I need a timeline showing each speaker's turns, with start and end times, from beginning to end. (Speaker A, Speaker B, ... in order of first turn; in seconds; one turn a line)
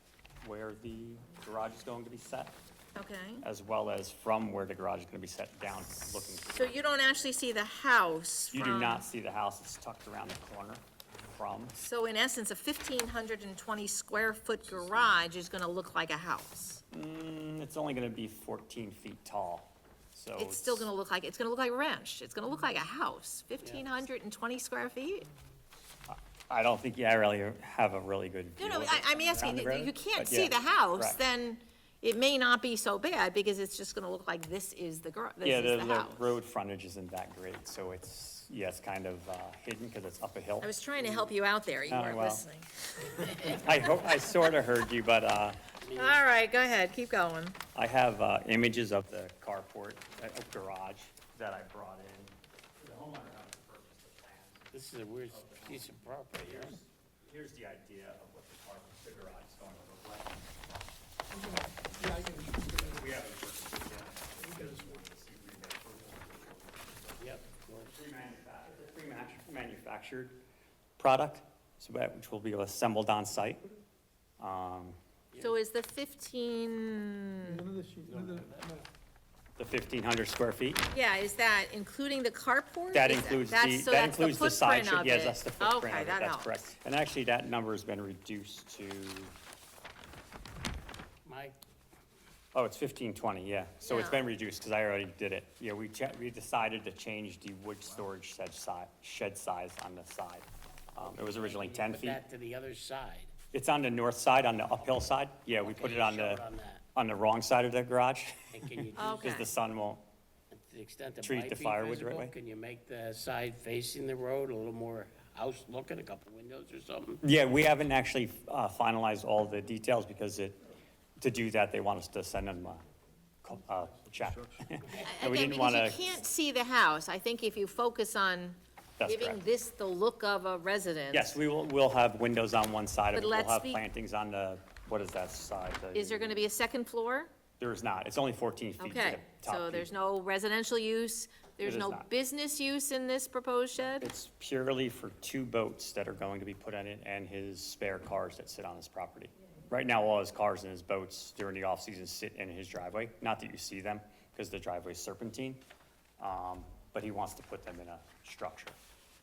Speaker A: 0.4-2.5
Speaker B: 3.0-3.5
Speaker A: 3.4-6.8
Speaker B: 6.4-9.1
Speaker A: 8.5-11.8
Speaker B: 11.8-16.8
Speaker A: 16.9-20.9
Speaker B: 20.4-25.3
Speaker C: 23.6-23.9
Speaker A: 26.1-31.2
Speaker B: 28.6-36.4
Speaker A: 35.4-40.7
Speaker B: 40.6-43.9
Speaker A: 41.9-42.4
Speaker A: 43.3-45.6
Speaker C: 45.8-46.2
Speaker B: 45.9-47.6
Speaker A: 47.7-60.6
Speaker C: 54.7-56.8
Speaker D: 61.3-63.2
Speaker A: 61.3-70.4
Speaker D: 64.4-65.0
Speaker C: 67.2-68.0
Speaker A: 71.0-73.6
Speaker A: 74.4-75.0
Speaker B: 75.4-77.7
Speaker D: 77.4-78.8
Speaker C: 78.0-78.8
Speaker A: 79.6-80.8
Speaker B: 80.9-86.5
Speaker A: 82.9-89.3
Speaker C: 91.2-91.5
Speaker A: 92.5-102.2
Speaker B: 93.8-94.2
Speaker C: 101.0-103.3
Speaker A: 103.5-106.4
Speaker C: 105.6-106.8
Speaker A: 106.9-110.0
Speaker C: 108.5-109.4
Speaker B: 109.0-109.5
Speaker C: 110.5-117.2
Speaker A: 111.2-112.3
Speaker A: 117.2-120.6
Speaker A: 121.2-122.8
Speaker A: 123.4-126.1
Speaker B: 124.9-131.4
Speaker A: 129.0-129.4
Speaker A: 131.1-136.4
Speaker B: 133.1-133.8
Speaker B: 135.9-137.3
Speaker A: 137.6-139.9
Speaker B: 138.8-144.1
Speaker A: 141.6-142.1
Speaker A: 144.0-155.6
Speaker A: 156.2-158.8